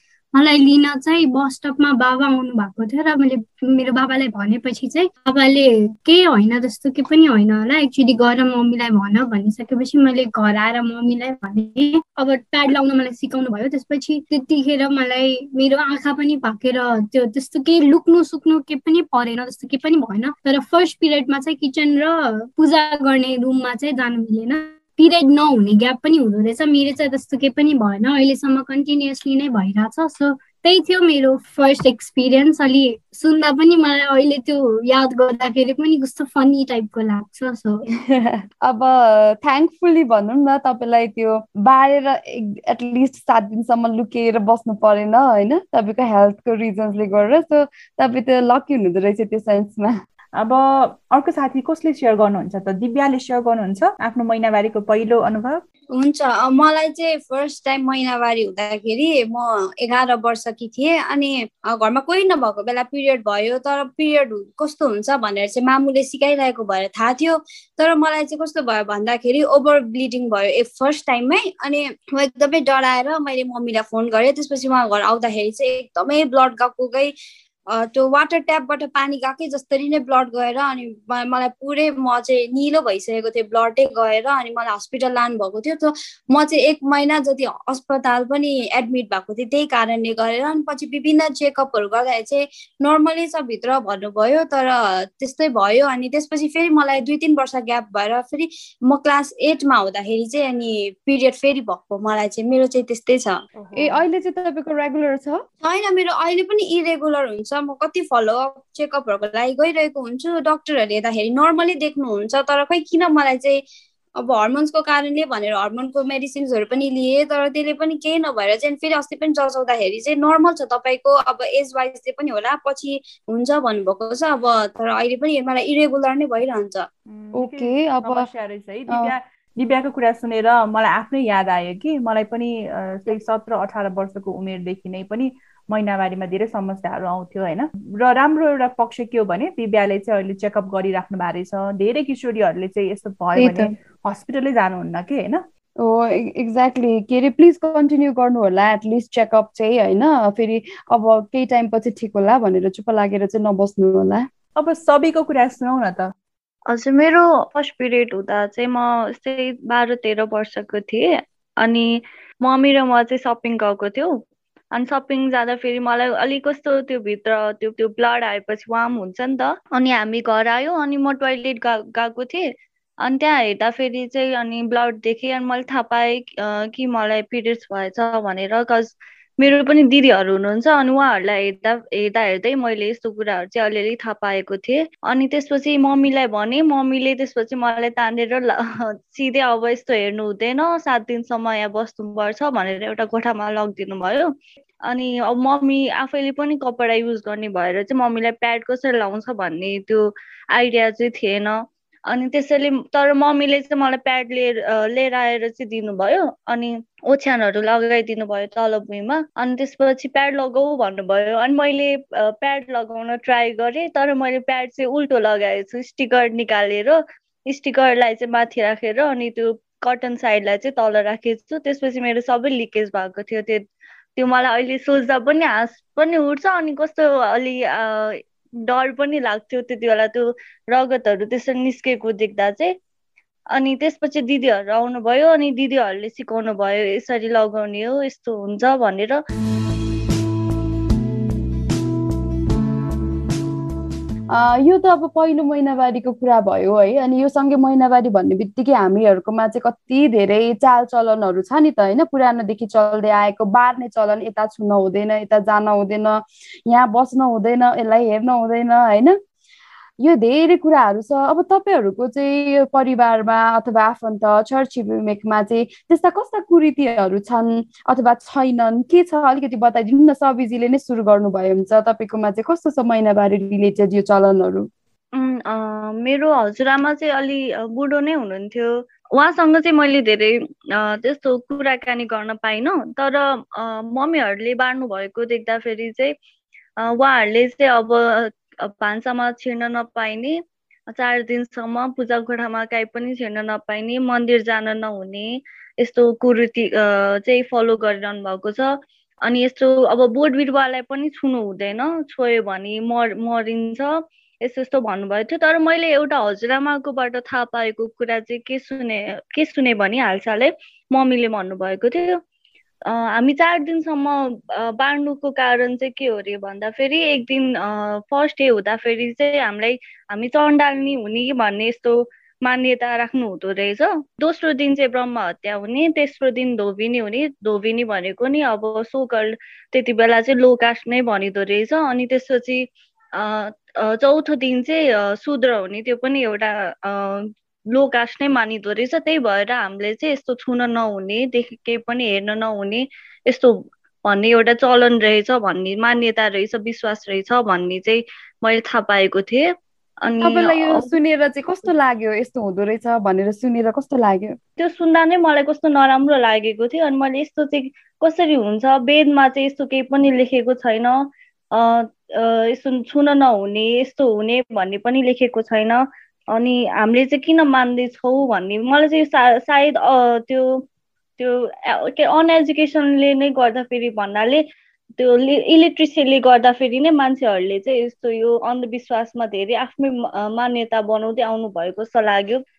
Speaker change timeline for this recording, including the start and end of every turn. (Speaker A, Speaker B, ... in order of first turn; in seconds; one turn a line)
Speaker A: 0.3-37.9
Speaker B: 38.1-50.0
Speaker C: 50.4-55.6
Speaker D: 55.9-77.1
Speaker D: 77.7-103.4
Speaker C: 103.6-104.0
Speaker B: 103.8-105.4
Speaker D: 105.6-113.6
Speaker D: 114.2-126.9
Speaker C: 127.1-145.4
Speaker B: 127.4-128.2
Speaker B: 143.4-143.7
Speaker B: 145.8-154.3
Speaker C: 154.6-156.1
Speaker E: 156.7-161.9
Speaker E: 162.4-164.2
Speaker E: 164.7-172.5
Speaker E: 173.0-194.3
Speaker E: 194.9-223.6
Speaker E: 224.2-232.7
Speaker E: 233.5-239.2
Speaker B: 244.3-259.2
Speaker B: 260.0-274.7
Speaker E: 275.1-286.1
Speaker E: 286.8-290.4
Speaker E: 290.9-298.7
Speaker E: 299.2-303.9
Speaker E: 304.4-312.2
Speaker E: 312.9-332.6
Speaker E: 333.2-343.5
Speaker E: 344.1-349.5
Speaker E: 350.1-350.9
Speaker B: 350.2-354.4
Speaker E: 354.6-361.0
Speaker E: 361.5-365.8
Speaker E: 366.4-370.6
Speaker E: 371.2-374.4
Speaker E: 375.0-382.4